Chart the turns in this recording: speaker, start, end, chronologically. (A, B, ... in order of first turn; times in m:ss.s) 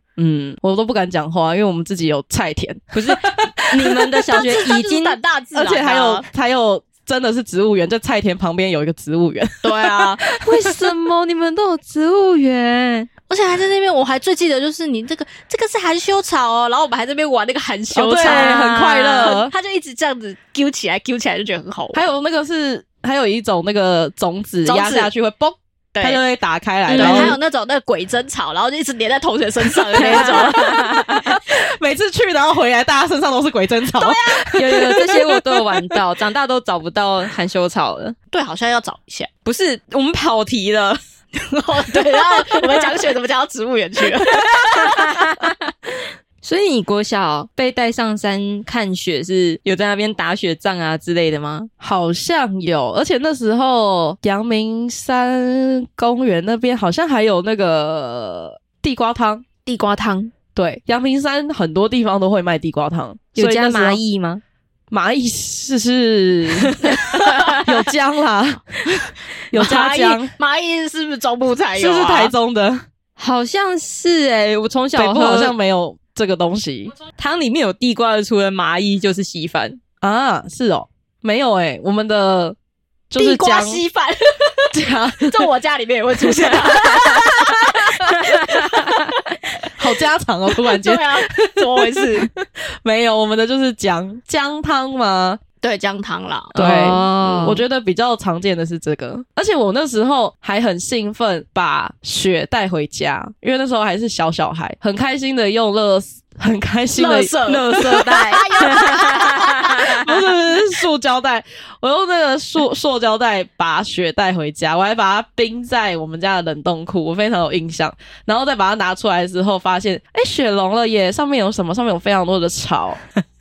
0:00.2-0:04.2 A
0:02.9-0:05.2 B
0:04.3-0:06.2 C
0:05.5-0:10.8 A
0:09.6-0:10.2 C
0:10.4-0:13.1 B
0:13.3-0:18.6 C
0:17.9-0:19.5 A
0:18.2-0:19.4 B
0:19.2-0:22.0 C
0:21.9-0:27.4 A
0:24.6-0:25.1 C
0:25.9-0:26.2 C
0:26.9-0:27.4 B
0:26.9-0:31.0 C
0:30.0-0:30.7 A
0:30.0-0:31.2 B
0:31.3-0:35.6 A
0:34.0-0:34.5 C
0:34.6-0:38.2 B
0:38.3-0:39.3 C
0:39.4-0:41.0 B
0:41.4-0:45.0 C
0:44.3-0:45.7 B
0:46.4-0:51.7 B
0:51.8-0:59.4 A
0:59.6-1:00.3 B
1:00.5-1:04.0 A
1:03.3-1:04.4 B
1:04.9-1:06.8 A
1:06.8-1:07.6 C
1:07.4-1:10.3 A
1:09.5-1:12.3 C
1:11.7-1:12.8 A
1:13.2-1:15.5 B
1:14.9-1:17.0 A
1:17.2-1:19.8 B
1:20.0-1:22.6 A
1:23.1-1:23.8 A
1:23.2-1:29.7 C
1:24.7-1:25.5 A
1:26.9-1:27.5 A
1:29.8-1:35.4 A
1:30.6-1:32.3 C
1:35.6-1:36.9 C
1:36.5-1:37.6 B
1:36.5-1:48.4 A
1:46.9-1:49.8 C
1:47.5-1:50.1 B
1:49.8-2:03.0 A